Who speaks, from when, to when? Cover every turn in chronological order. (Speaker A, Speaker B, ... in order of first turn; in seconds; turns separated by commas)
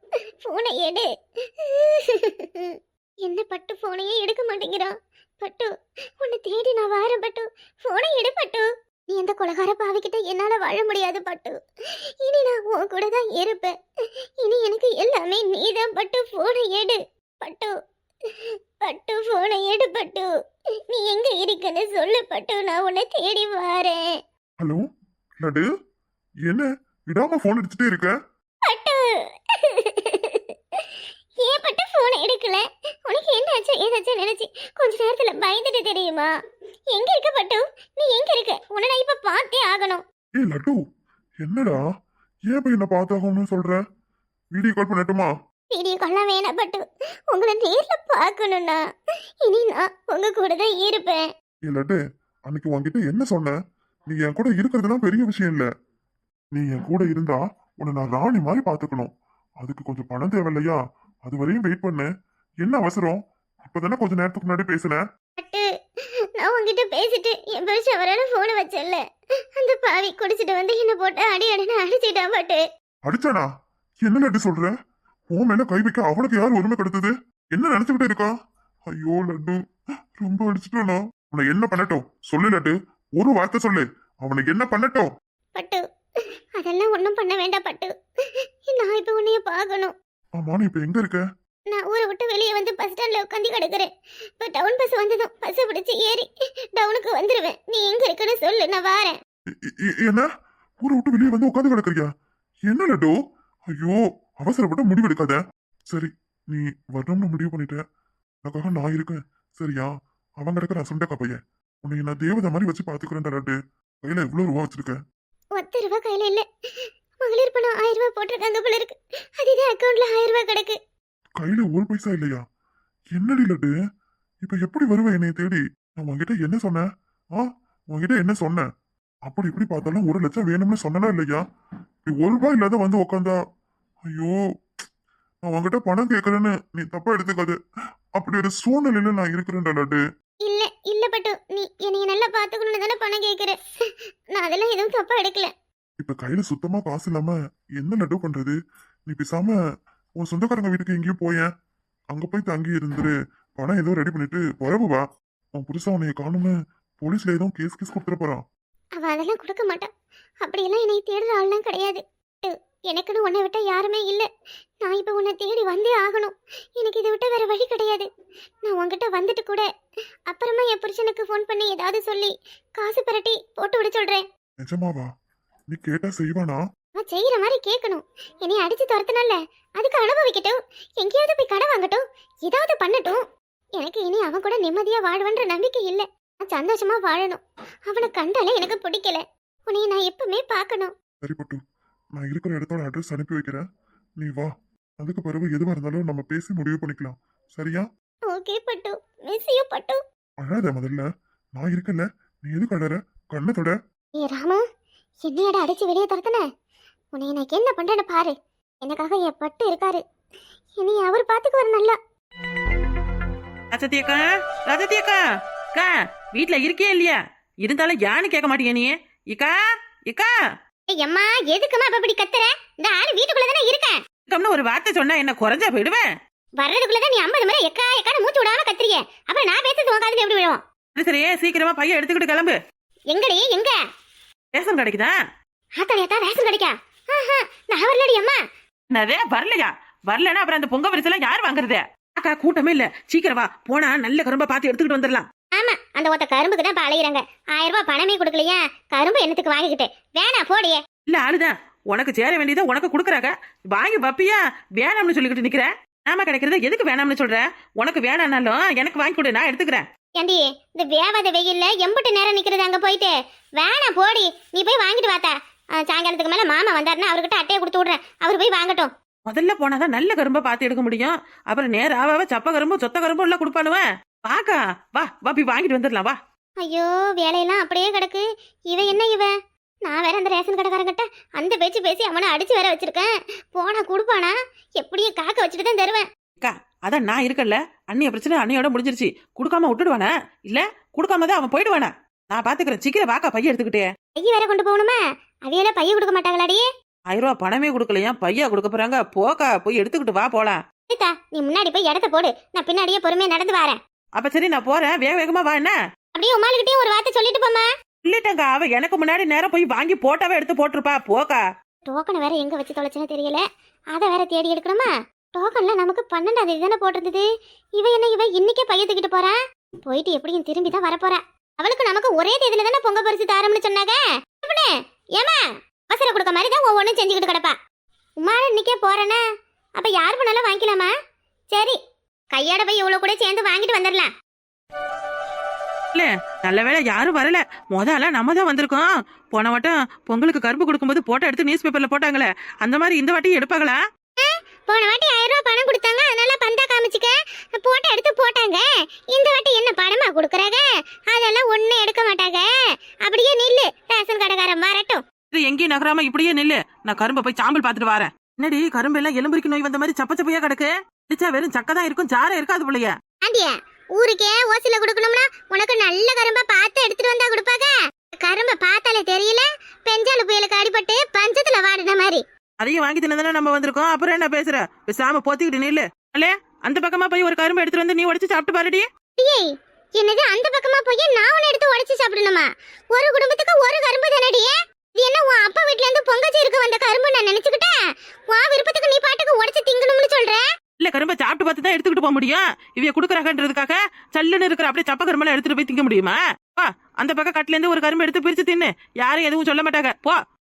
Speaker A: 0.5-1.1, Speaker A: 1.6-11.6, Speaker A: 12.2-13.7, Speaker A: 14.4-17.8, Speaker A: 18.8-20.3, Speaker A: 20.9-24.0, Speaker B: 26.5-28.1, Speaker A: 28.7-29.0, Speaker A: 29.6-30.8, Speaker A: 31.4-36.3, Speaker A: 36.9-40.0, Speaker B: 40.4-40.8, Speaker B: 41.4-41.8, Speaker B: 42.5-43.8, Speaker B: 44.5-45.3, Speaker A: 45.7-48.8, Speaker A: 49.4-51.2, Speaker B: 51.7-53.5, Speaker B: 54.1-55.7, Speaker B: 56.5-62.1, Speaker B: 62.6-65.0, Speaker A: 65.4-65.6, Speaker A: 66.4-69.0, Speaker A: 69.6-72.6, Speaker B: 73.1-73.5, Speaker B: 74.0-74.7, Speaker B: 75.3-78.3, Speaker B: 78.9-79.6, Speaker B: 80.2-85.1, Speaker A: 85.5-85.8, Speaker A: 86.6-87.9, Speaker A: 88.7-89.9, Speaker B: 90.4-91.2, Speaker A: 91.7-99.2, Speaker B: 99.8-100.3, Speaker B: 100.8-102.1, Speaker B: 102.7-103.1, Speaker B: 103.8-105.4, Speaker B: 105.9-107.8, Speaker B: 108.5-109.9, Speaker B: 110.4-115.0, Speaker A: 115.6-116.4, Speaker A: 117.2-120.8, Speaker B: 121.4-122.4, Speaker B: 123.1-123.7, Speaker B: 124.4-126.8, Speaker B: 127.4-128.7, Speaker B: 129.3-131.4, Speaker B: 132.1-133.4, Speaker B: 134.1-134.3, Speaker B: 135.4-137.6, Speaker B: 138.2-140.0, Speaker A: 140.4-143.6, Speaker A: 144.3-145.5, Speaker B: 146.0-148.6, Speaker B: 149.1-149.6, Speaker B: 150.2-151.5, Speaker B: 152.1-155.0, Speaker B: 155.6-158.4, Speaker A: 159.0-159.9, Speaker A: 160.4-164.3, Speaker A: 164.8-168.1, Speaker A: 168.7-169.7, Speaker A: 170.3-174.2, Speaker B: 174.6-175.1, Speaker B: 175.7-176.6, Speaker A: 176.9-183.2, Speaker A: 183.8-190.9, Speaker B: 191.2-191.6, Speaker B: 192.2-193.6, Speaker B: 194.2-194.5, Speaker B: 195.0-197.8, Speaker A: 198.3-200.0, Speaker B: 200.4-201.1, Speaker B: 201.6-203.8, Speaker A: 204.2-204.6, Speaker A: 205.2-206.4, Speaker A: 207.1-210.0, Speaker A: 210.8-212.0, Speaker C: 213.7-215.2, Speaker C: 215.7-219.5, Speaker A: 220.9-224.0, Speaker C: 224.3-226.0, Speaker A: 226.6-230.6, Speaker C: 230.9-232.6, Speaker A: 233.1-233.8, Speaker C: 234.5-235.1, Speaker A: 235.8-238.4, Speaker C: 238.9-245.2, Speaker A: 245.5-250.8, Speaker C: 251.1-259.8, Speaker A: 260.2-268.9, Speaker C: 269.3-276.2, Speaker A: 276.6-279.3, Speaker A: 279.9-286.1, Speaker C: 286.4-293.9, Speaker A: 294.2-296.7, Speaker C: 297.1-300.6, Speaker A: 300.9-303.8, Speaker C: 304.2-305.8, Speaker A: 306.1-307.7, Speaker C: 308.0-311.4, Speaker A: 311.9-313.4, Speaker A: 313.9-317.2, Speaker A: 317.8-327.6, Speaker A: 328.2-329.2, Speaker A: 329.8-330.9, Speaker A: 331.5-331.8, Speaker A: 332.3-334.1, Speaker C: 335.9-343.8, Speaker A: 344.2-352.5, Speaker A: 353.0-355.0, Speaker C: 355.3-362.9, Speaker A: 363.2-372.2, Speaker C: 372.6-378.9, Speaker A: 379.2-379.4, Speaker A: 380.0-387.7, Speaker A: 388.3-390.4, Speaker C: 390.8-400.2